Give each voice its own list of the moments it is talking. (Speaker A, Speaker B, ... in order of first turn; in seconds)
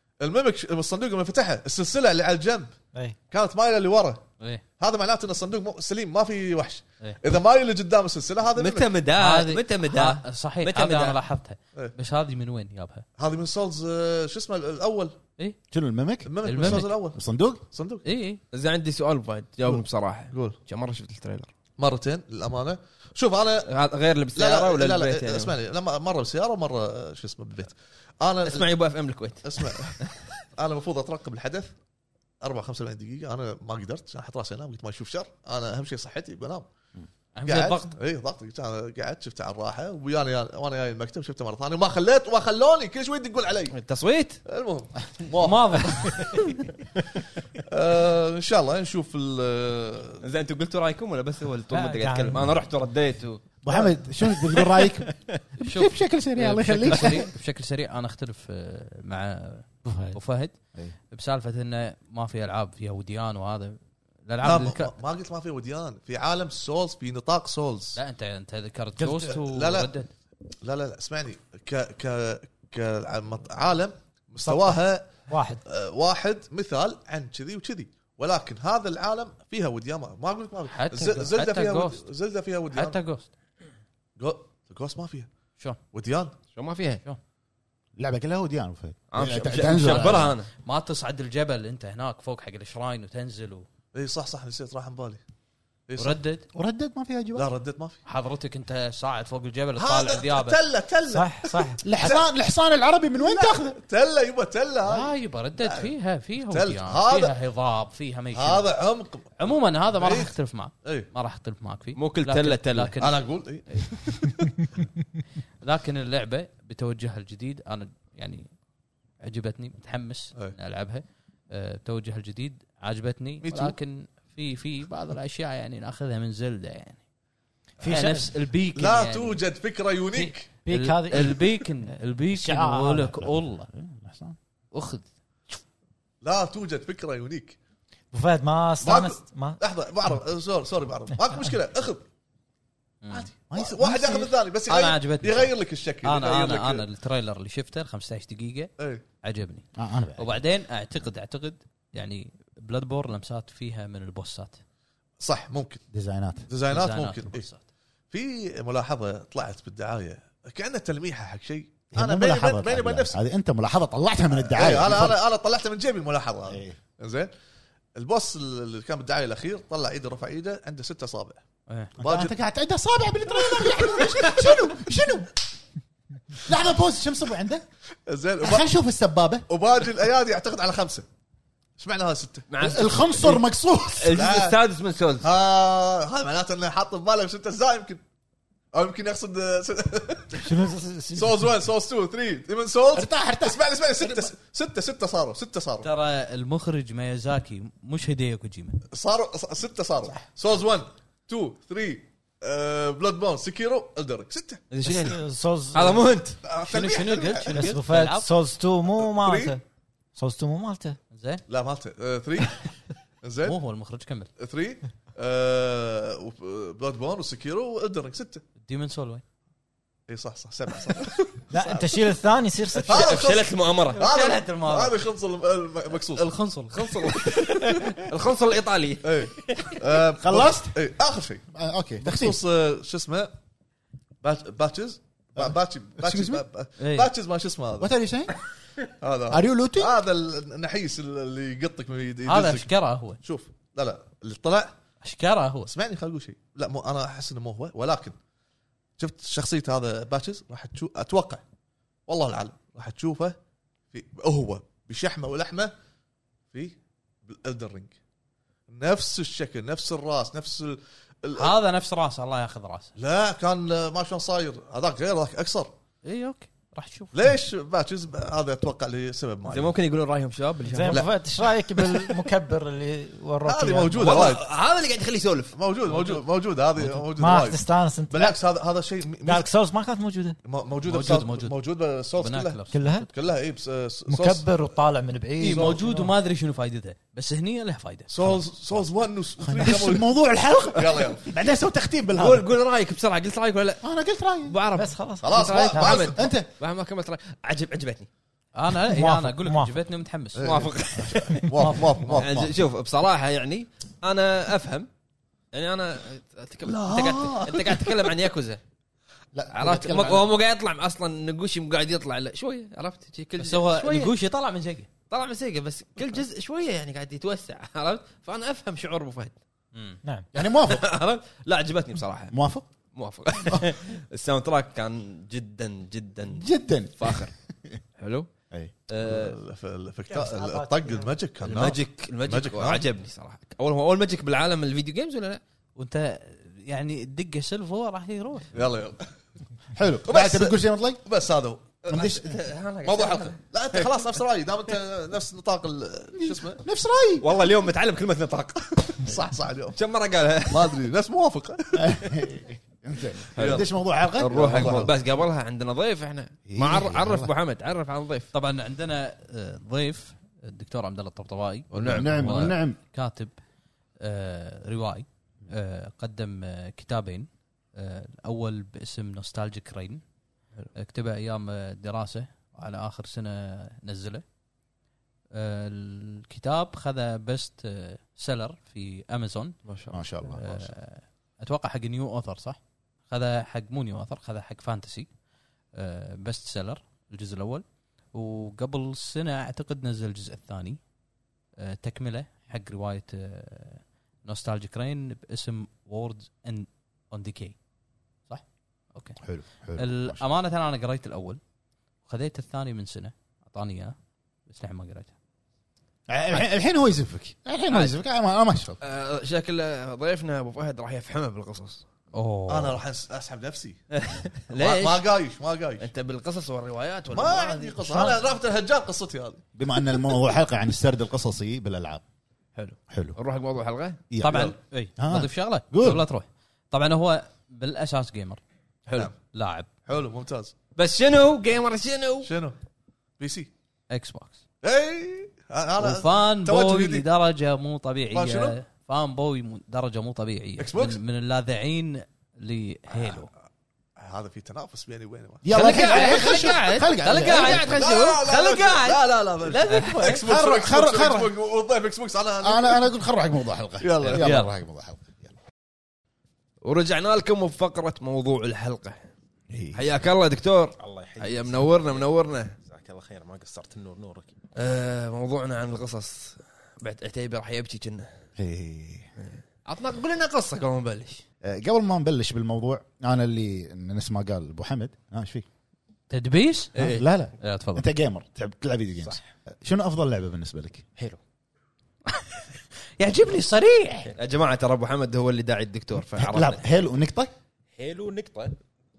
Speaker A: 0.2-2.8, 3.3-4.2, 4.8-8.9, 13.2-15.2, 16.2-18.1, 19.7-20.6, 21.8-23.7, 24.4-28.7, 29.4-30.0, 30.6-31.7, 32.4-36.7, 37.5-43.8, 44.5-46.2, 47.7-50.2, 64.4-68.0, 69.0-69.9, 70.6-83.0, 84.2-85.3, 85.9-86.3, 93.9-95.2, 95.9-96.2, 97.3-98.0, 99.8-102.3, 103.2-105.9, 106.5-107.3, 108.3-110.3, 110.8-111.1, 113.0-114.5, 123.4-123.8, 128.8-130.5, 136.2-137.6, 138.8-142.1, 143.1-146.9, 148.8-149.0, 155.2-155.8, 156.5-157.5, 158.1-163.2, 164.3-167.3, 167.9-171.4, 172.0-172.3, 173.6-174.4, 178.1-178.7, 179.5-181.1, 181.8-182.9, 184.1-184.6, 185.2-188.0, 188.7-195.9, 198.9-204.7, 206.4-207.7, 209.0-209.6, 211.5-213.6, 214.4-218.4, 220.1-221.8, 222.9-226.3, 229.0-231.4, 232.0-233.3, 234.2-237.9, 239.0-244.8, 245.7-248.2, 249.0-251.4, 252.1-253.4, 253.9-255.7, 256.5-257.9, 258.7-261.5, 263.0-265.7, 267.1-269.7, 273.4-274.4, 275.6-279.5, 280.4-284.5, 285.4-285.8, 288.1-290.1, 290.7-291.3, 295.2-296.2, 300.4-302.5, 306.6-308.1, 329.0-332.9, 338.5-339.1, 340.1-341.8, 342.9-346.6, 349.0-349.8, 350.5-352.2, 353.4-353.7, 354.2-354.9, 412.5-413.8, 414.5-415.9, 417.1-419.4, 429.9-430.5, 432.2-432.6, 433.2-433.5, 434.6-437.1, 438.1-438.6, 440.6-441.0, 444.0-445.5, 447.3-452.8, 453.8-454.3
Speaker B: 8.6-11.2, 18.5-21.5, 23.7-25.6, 28.4-30.3, 43.7-44.4, 50.2-55.1, 86.5-87.0, 89.1-90.5, 112.0-113.0, 182.5-183.4, 184.0-185.3, 204.7-205.2, 205.7-206.4, 222.9-224.0, 226.7-229.7, 269.5-271.1, 274.0-276.2, 292.2-293.9, 294.5-298.1, 300.4-301.5, 302.1-304.9, 305.5-308.6, 309.5-314.1, 315.1-319.4, 320.4-322.4, 322.9-326.5, 327.0-327.3, 328.0-328.3, 328.9-329.4, 331.4-335.4, 341.9-344.0, 347.2-349.1, 349.8-350.8, 353.4-358.3, 361.7-362.5, 379.6-380.0, 408.8-411.8, 413.9-415.1, 415.8-418.1, 422.6-424.5, 430.8-432.3, 445.5-450.2, 456.6-459.0, 459.7-462.6, 464.6-468.1, 469.6-471.2, 484.2-486.8
Speaker C: 9.2-13.1, 16.4-16.9, 18.0-18.4, 37.4-38.0, 45.4-46.1, 55.6-60.5, 61.1-64.9, 68.0-70.1, 80.7-82.1, 82.7-83.3, 89.5-93.7, 96.0-96.5, 98.1-100.6, 104.9-108.7, 109.4-113.9, 115.6-118.5, 119.2-127.0, 127.8-129.4, 130.7-133.7, 134.7-135.6, 143.0-143.3, 144.7-154.6, 156.7-157.6, 171.7-171.9, 195.8-198.8, 206.7-208.3, 211.1-211.4, 213.4-214.3, 218.6-219.2, 223.9-225.0, 226.2-226.9, 236.8-237.1, 242.3-243.2, 245.0-245.7, 261.4-262.9, 266.0-267.1, 280.9-281.6, 282.1-282.8, 285.4-288.1, 298.6-300.4, 313.4-314.9, 319.7-320.0, 335.8-338.5, 358.3-363.3, 364.0-370.0, 370.8-374.2, 375.3-379.6, 380.2-385.1, 385.7-390.8, 391.6-397.6, 398.3-399.2, 399.8-401.4, 402.1-404.0, 404.5-405.1, 412.1-412.8, 424.2-428.4, 429.2-429.7, 433.9-434.4, 435.8-443.3, 447.1-447.6, 449.7-450.1, 454.2-454.5, 476.1-477.9, 482.1-482.4, 483.0-484.1
Speaker D: 15.7-17.6, 53.6-57.3, 88.0-90.3, 96.5-97.5, 101.8-103.8, 132.4-134.4, 143.5-144.3, 149.8-150.3, 155.9-156.5, 161.9-165.2, 166.5-166.8, 172.0-175.4, 176.4-177.7, 178.4-179.5, 182.6-184.2, 192.9-194.3, 230.2-230.8, 231.5-232.4, 236.0-236.4, 237.8-238.4, 239.3-239.9, 289.4-292.5, 293.8-294.6, 296.1-296.5, 301.0-301.3, 302.2-302.5, 309.3-310.3, 320.3-320.9, 322.3-322.7, 326.3-327.8, 339.7-341.0, 341.9-342.4, 346.2-347.3, 351.7-354.9, 356.5-357.3, 361.9-362.8, 379.9-380.7, 399.2-400.2, 406.1-408.8, 419.6-422.0, 422.9-423.2, 424.1-426.1, 445.4-447.9, 450.2-451.4, 452.4-455.4, 459.5-459.9, 468.4-469.1, 471.4-475.4, 476.8-480.9, 486.2-487.3
Speaker E: 51.7-52.5, 59.9-60.2, 74.4-75.6, 101.1-101.8, 127.8-128.3, 130.2-131.4, 132.5-132.9, 138.1-139.6, 190.4-191.5, 204.9-206.1, 207.5-209.6, 210.2-211.0, 221.5-223.1, 270.7-274.3, 277.2-278.4, 279.2-280.4, 282.7-283.1, 284.1-286.1, 294.7-296.1, 298.9-299.8, 301.6-301.9, 330.1-331.1
Speaker F: 460.8-464.4, 487.8-488.6